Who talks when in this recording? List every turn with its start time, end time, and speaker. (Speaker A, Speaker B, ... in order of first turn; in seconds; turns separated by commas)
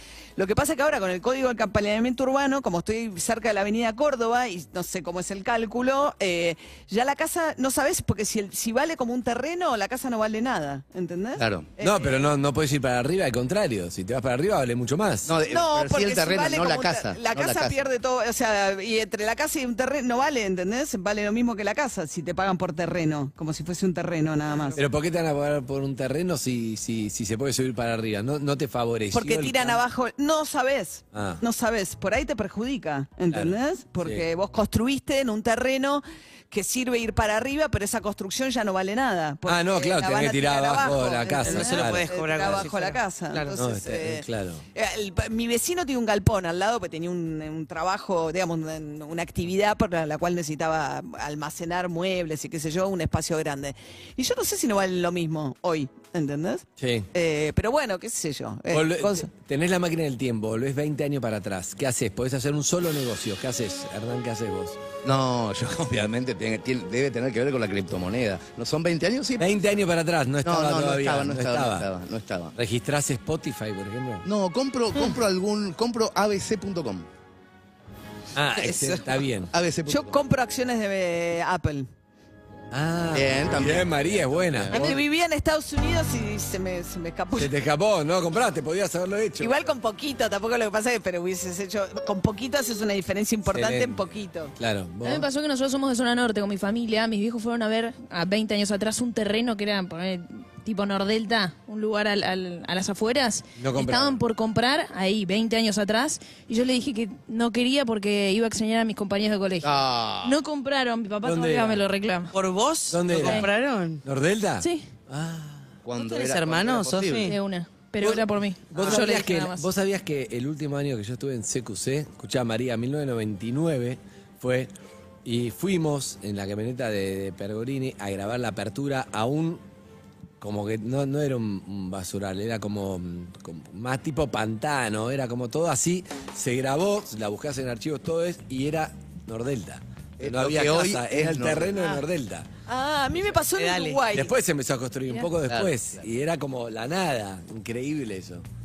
Speaker A: 0.4-12.2, Speaker B: 11.4-11.7, Speaker C: 11.8-15.3, Speaker B: 15.3-17.8, Speaker A: 15.5-24.8, Speaker C: 24.8-29.8, Speaker A: 29.1-59.3, Speaker C: 31.1-31.4, Speaker C: 33.3-34.2, Speaker C: 39.5-42.6, Speaker D: 41.4-43.6, Speaker C: 43.6-44.6, Speaker C: 56.8-57.1, Speaker C: 58.7-64.8, Speaker B: 65.0-69.5, Speaker C: 69.4-71.8, Speaker B: 70.4-72.5, Speaker C: 72.6-74.3, Speaker B: 74.2-77.1, Speaker C: 78.3-79.5, Speaker A: 78.6-79.0, Speaker B: 79.5-80.2, Speaker A: 79.9-81.9, Speaker C: 82.7-85.0, Speaker B: 83.1-84.9, Speaker A: 84.7-87.5, Speaker C: 87.4-89.7, Speaker A: 89.4-94.5, Speaker C: 93.5-94.0, Speaker C: 94.6-95.3, Speaker E: 95.0-112.3, Speaker C: 103.6-104.2, Speaker B: 109.6-110.4, Speaker C: 111.2-111.8, Speaker D: 112.3-114.0, Speaker C: 112.9-115.7, Speaker E: 113.2-113.5, Speaker E: 114.6-114.9, Speaker B: 115.8-117.3, Speaker D: 116.0-117.4, Speaker E: 117.2-119.7, Speaker C: 118.0-124.7, Speaker D: 118.8-119.0, Speaker C: 125.2-129.6, Speaker C: 130.4-142.5, Speaker B: 140.2-141.8, Speaker A: 142.7-144.3, Speaker D: 143.4-144.1, Speaker C: 144.1-148.4, Speaker B: 145.5-146.0